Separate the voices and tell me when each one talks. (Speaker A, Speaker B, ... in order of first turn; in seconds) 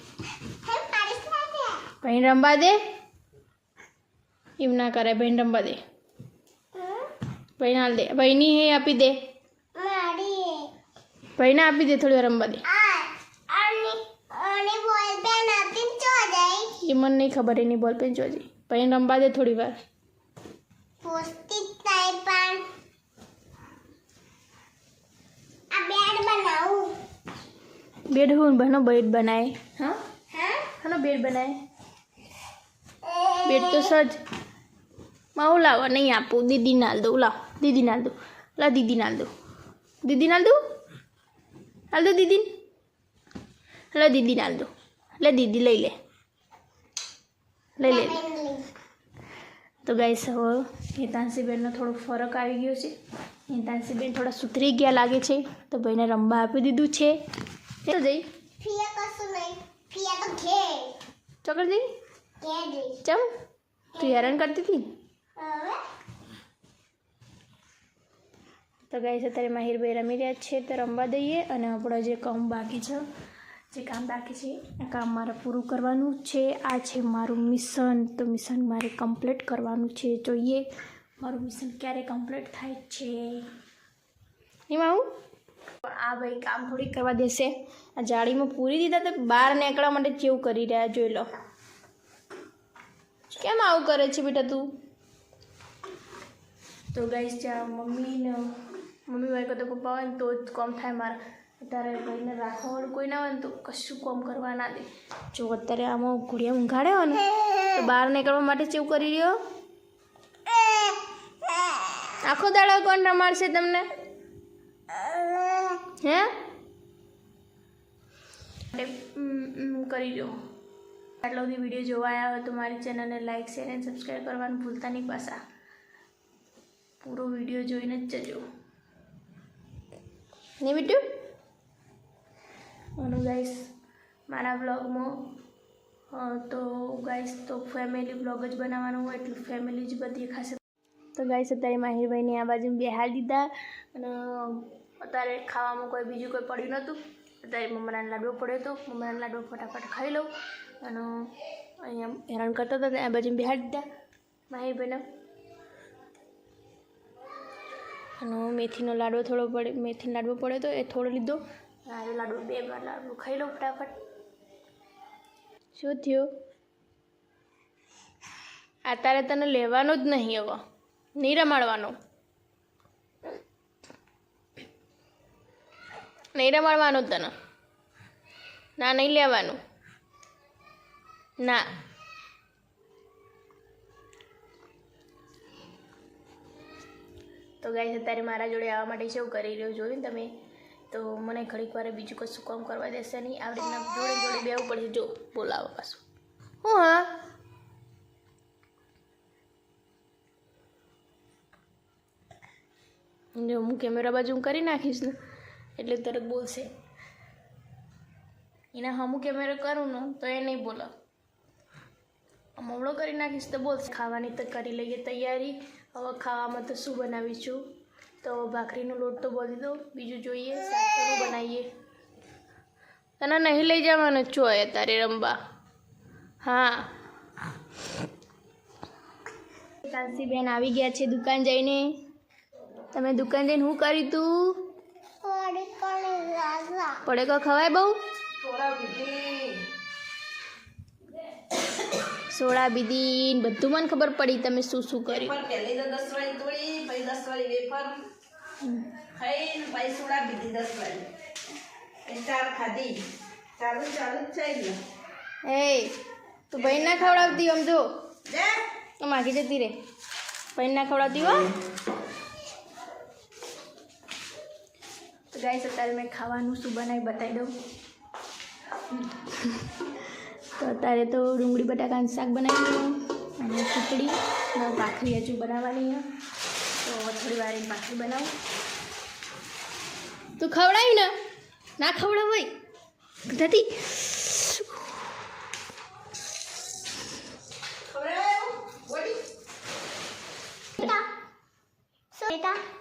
Speaker A: 0.4-1.8, 6.7-7.1, 9.8-10.7, 12.7-16.7, 21.0-22.6, 25.7-26.9, 30.3-30.7, 33.0-34.0, 47.8-48.6, 58.6-60.9, 62.4-63.0, 64.0-64.4, 65.4-65.8, 107.3-107.8, 110.5-112.1, 114.9-115.8, 235.2-237.0, 290.8-291.1, 292.1-292.6
Speaker B: 2.0-2.8, 4.6-5.8, 7.6-9.2, 11.4-12.6, 16.8-19.8, 28.1-30.0, 30.8-31.5, 33.4-34.2, 35.4-39.3, 40.0-40.6, 41.9-42.5, 43.9-45.9, 47.8-48.2, 49.8-52.9, 53.5-57.1, 57.8-58.2, 61.4-61.8, 64.0-64.8, 68.9-73.0, 73.7-80.7, 81.2-83.5, 84.7-85.1, 85.8-91.3, 93.3-94.7, 96.9-98.5, 99.1-109.3, 112.2-113.9, 115.9-116.3, 118.7-120.3, 121.2-125.4, 127.0-128.4, 130.6-131.0, 133.0-133.6, 134.3-135.2, 136.1-140.6, 141.2-150.3, 150.8-151.1, 151.8-153.8, 154.5-155.0, 158.2-163.9, 165.7-166.3, 168.8-170.6, 171.2-171.9, 176.3-177.3, 178.8-179.6, 181.4-181.7, 187.6-190.3, 190.9-196.0, 196.6-197.1, 203.3-205.1, 205.8-206.7, 208.7-210.9, 212.6-217.6, 218.2-221.7, 223.2-225.3, 226.4-226.9, 229.8-231.9, 232.9-234.7, 237.0-237.9, 242.3-245.3, 248.6-248.9, 255.4-256.0, 256.5-257.9, 259.0-259.8, 260.5-261.5, 265.3-267.5, 269.0-269.7, 270.6-276.0, 276.8-278.3, 280.4-281.1, 281.8-282.5, 283.3-284.9
Speaker C: 238.4-239.7, 245.1-248.0, 249.0-251.1, 252.0-253.0, 253.6-254.8, 256.6-257.4, 258.2-258.6, 287.8-289.2